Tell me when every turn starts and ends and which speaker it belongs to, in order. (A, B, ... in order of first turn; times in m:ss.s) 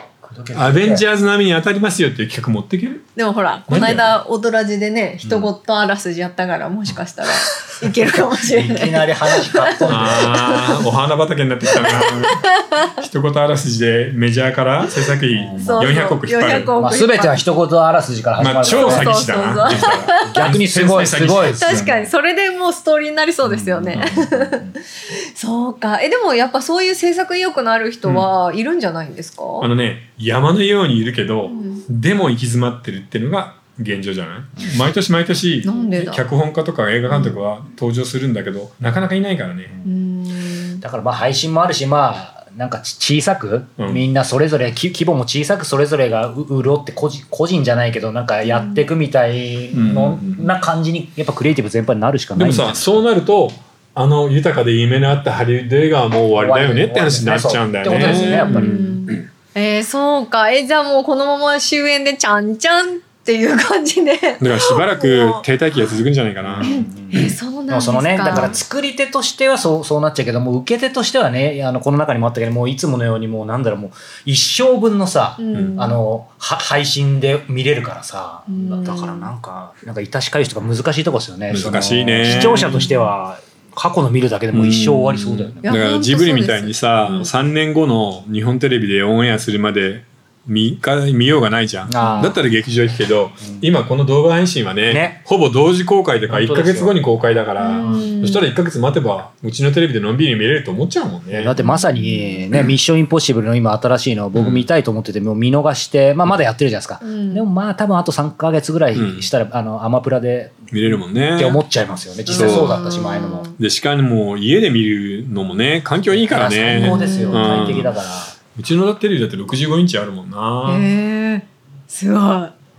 0:00.2-0:01.0 A
0:00.5-0:03.0 B
0:03.2-0:10.8 C
0:03.7-0:04.1 B
0:08.4-0:10.6 A
0:09.9-0:16.7 B
0:11.7-0:13.0 C
0:15.3-0:15.9 A
0:15.6-0:17.4 C
0:16.8-0:22.0 A
0:18.4-0:22.0 B
0:18.7-0:20.5 C
0:21.5-0:29.7 C
0:23.4-0:24.7 A
0:23.9-0:24.2 B
0:29.6-0:39.7 B
0:31.4-0:31.8 C
0:35.6-0:36.2 C
0:37.1-0:37.4 C
0:39.8-0:40.8 C
0:40.8-0:53.0 A
0:43.8-0:44.0 B
0:48.4-0:48.8 C
0:49.7-0:50.5 B
0:52.3-0:59.1 B
0:56.3-0:58.8 A
0:57.9-1:05.4 C
1:04.4-1:07.3 B
1:06.4-1:07.2 A
1:06.6-1:08.6 C
1:07.7-1:25.7 A
1:08.3-1:08.6 B
1:15.4-1:16.0 C
1:18.5-1:19.3 C
1:21.5-1:22.9 B
1:22.2-1:22.9 C
1:24.5-1:41.5 B
1:25.6-1:27.3 C
1:31.9-1:32.4 A
1:32.0-1:32.3 C
1:34.9-1:35.2 A
1:36.3-1:37.2 A
1:37.6-1:38.4 C
1:37.8-1:38.1 A
1:41.3-1:50.7 A
1:41.6-1:42.4 C
1:44.3-1:44.7 B
1:47.0-1:47.4 C
1:48.9-1:49.3 B
1:50.7-1:51.6 B
1:51.4-1:53.5 A
1:52.3-1:53.6 C
1:52.3-1:52.8 B
1:53.6-1:57.9 B
1:56.0-1:58.4 A
1:56.7-1:57.7 C
1:58.5-2:00.9 B
2:00.6-2:02.5 C